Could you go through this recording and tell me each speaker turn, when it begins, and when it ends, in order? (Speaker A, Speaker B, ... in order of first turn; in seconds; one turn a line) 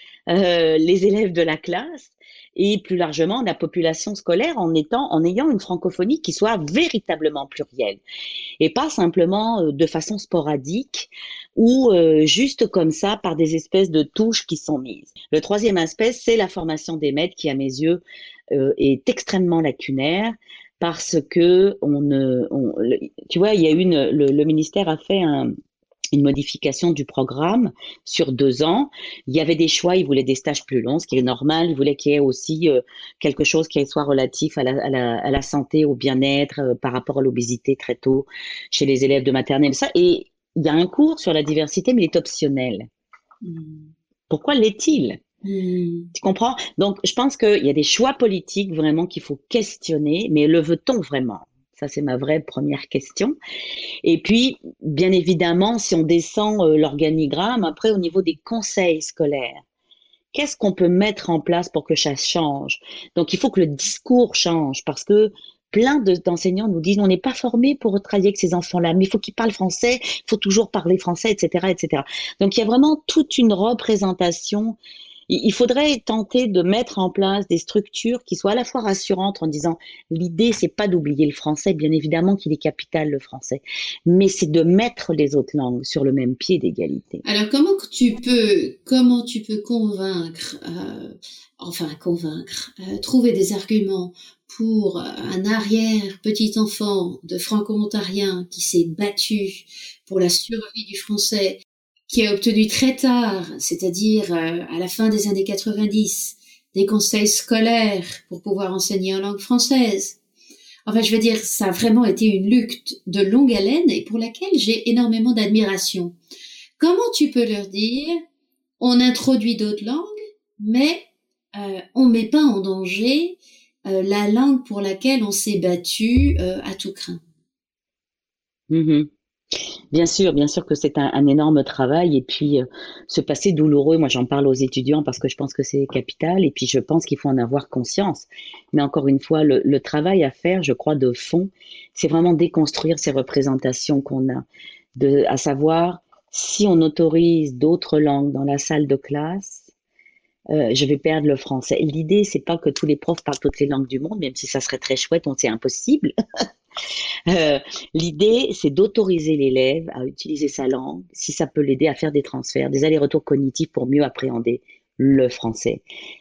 Speaker A: 0.3-8.0
Speaker A: 8.6-25.5
Speaker A: 26.1-42.9
Speaker B: 43.4-43.9
Speaker A: 44.3-45.2
Speaker B: 45.4-46.1
Speaker A: 46.1-53.3
Speaker A: 54.0-59.6
Speaker A: 60.3-74.8
Speaker A: 75.3-87.2
Speaker B: 87.2-110.2
Speaker B: 110.8-116.1
Speaker B: 116.8-118.2
Speaker B: 118.8-127.2
Speaker A: 128.7-129.1
Speaker A: 129.9-144.4
Speaker A: 144.9-149.7
Speaker A: 150.5-156.1
Speaker A: 157.3-165.8